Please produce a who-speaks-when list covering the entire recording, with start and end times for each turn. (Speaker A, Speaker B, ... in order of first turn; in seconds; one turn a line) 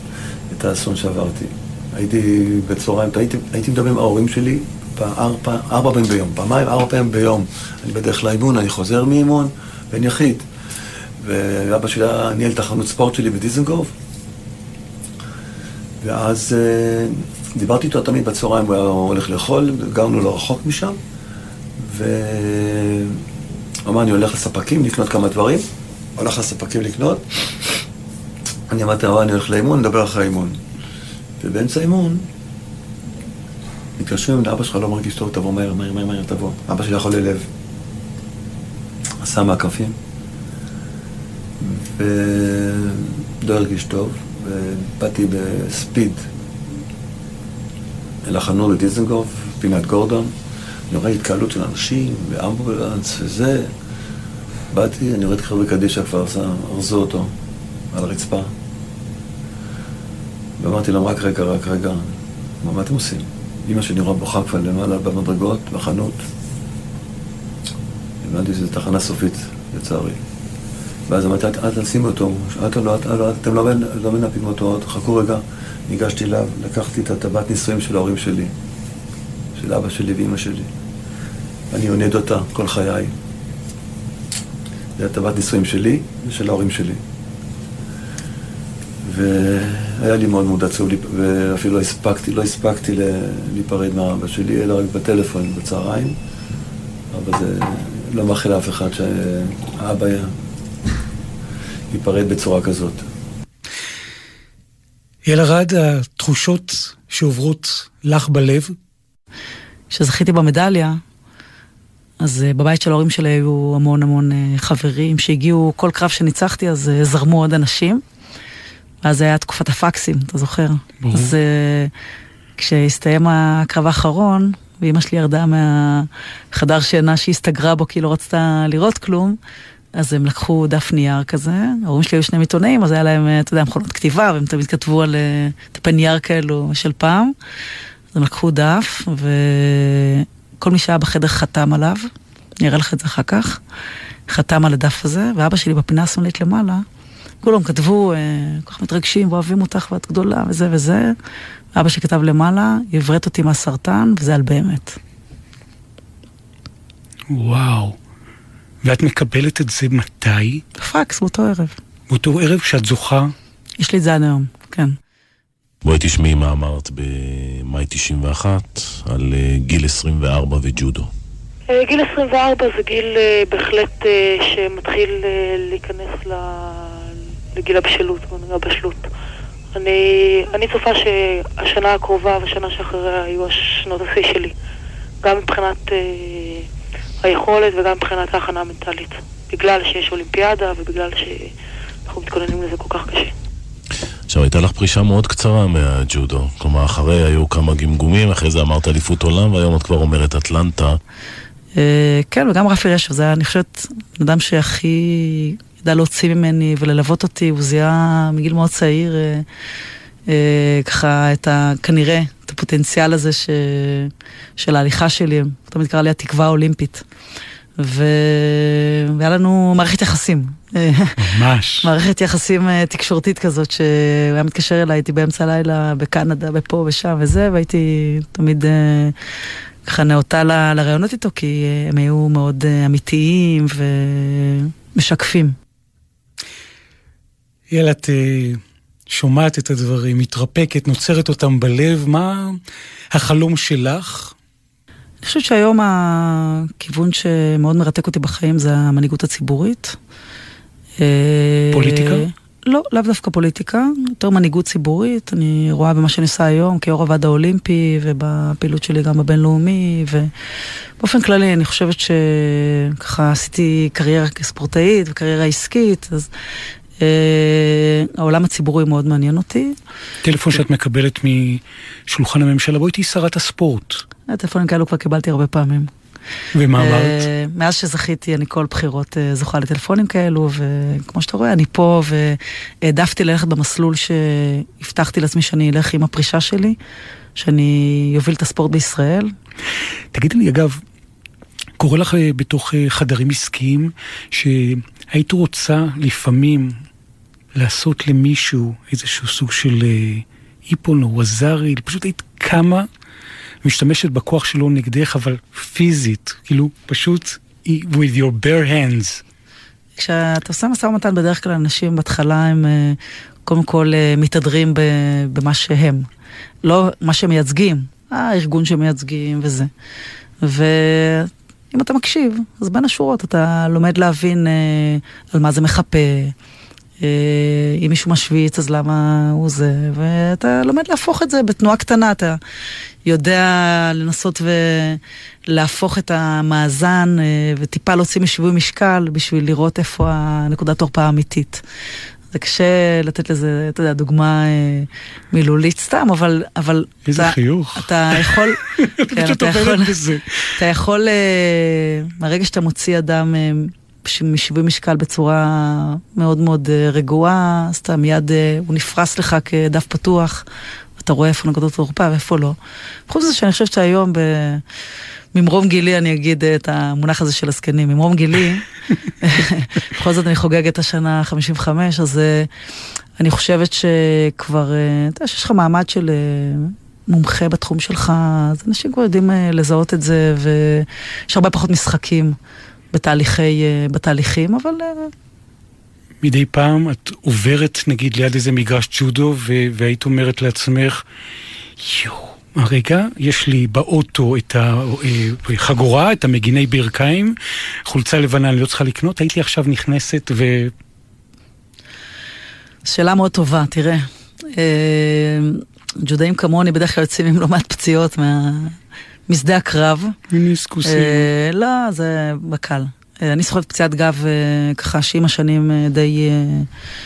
Speaker A: 0.5-10.4
Speaker A: 11.2-13.9
Speaker A: 16.0-21.0
Speaker A: 21.8-23.2
Speaker A: 23.9-27.7
Speaker A: 28.7-30.6
Speaker A: 31.4-32.3
Speaker A: 34.0-37.5
Speaker A: 39.2-40.0
Speaker A: 41.6-46.3
Speaker A: 48.2-50.3
Speaker A: 50.9-53.7
Speaker A: 54.7-57.3
Speaker A: 57.9-58.5
Speaker A: 60.6-66.2
Speaker A: 68.2-70.2
Speaker A: 71.1-78.5
Speaker A: 79.6-80.7
Speaker A: 81.7-83.1
Speaker A: 85.0-87.0
Speaker A: 89.0-96.2
Speaker A: 97.1-100.3
Speaker A: 101.9-103.1
Speaker B: 105.2-108.8
Speaker C: 109.9-111.0
Speaker C: 112.2-118.0
Speaker C: 119.0-121.9
Speaker B: 121.0-121.3
Speaker C: 122.6-129.4
Speaker C: 129.9-137.3
Speaker C: 138.1-142.1
Speaker C: 142.6-143.6
Speaker C: 144.3-146.8
Speaker C: 147.4-151.2
Speaker C: 151.7-155.0
Speaker B: 157.3-158.0
Speaker B: 158.8-160.6
Speaker C: 160.8-161.8
Speaker B: 162.1-163.3
Speaker C: 163.8-165.0
Speaker D: 165.8-171.1
Speaker E: 171.7-179.1
Speaker E: 179.7-184.5
Speaker E: 185.2-186.7
Speaker E: 187.2-191.6
Speaker E: 192.1-193.3
Speaker D: 194.3-201.0
Speaker C: 201.8-209.5
Speaker C: 210.3-217.0
Speaker C: 217.8-221.2
Speaker B: 221.2-221.9
Speaker C: 221.8-229.2
Speaker C: 229.8-235.6
Speaker B: 237.7-242.6
Speaker B: 243.1-244.3
Speaker C: 245.2-250.0
Speaker C: 251.0-260.3
Speaker B: 251.7-252.3
Speaker C: 261.0-266.3
Speaker C: 267.0-269.8
Speaker B: 270.2-274.0
Speaker C: 274.3-275.9
Speaker B: 276.6-277.3
Speaker C: 276.8-286.8
Speaker C: 287.4-289.3
Speaker B: 290.1-290.8
Speaker B: 291.8-296.7
Speaker B: 297.6-302.9
Speaker B: 303.6-309.2
Speaker C: 310.0-316.1
Speaker C: 316.6-319.7
Speaker C: 320.4-326.3
Speaker C: 327.0-332.4
Speaker C: 333.1-341.6
Speaker C: 342.3-350.0
Speaker B: 347.1-350.5
Speaker C: 350.6-360.4
Speaker C: 361.0-362.6
Speaker C: 363.1-364.6
Speaker C: 365.3-368.6
Speaker C: 369.2-372.5
Speaker C: 373.2-382.4
Speaker C: 382.9-385.1
Speaker B: 386.2-391.0
Speaker B: 391.8-400.7
Speaker C: 402.9-408.8
Speaker C: 409.3-410.2
Speaker B: 410.3-411.3
Speaker C: 410.9-416.7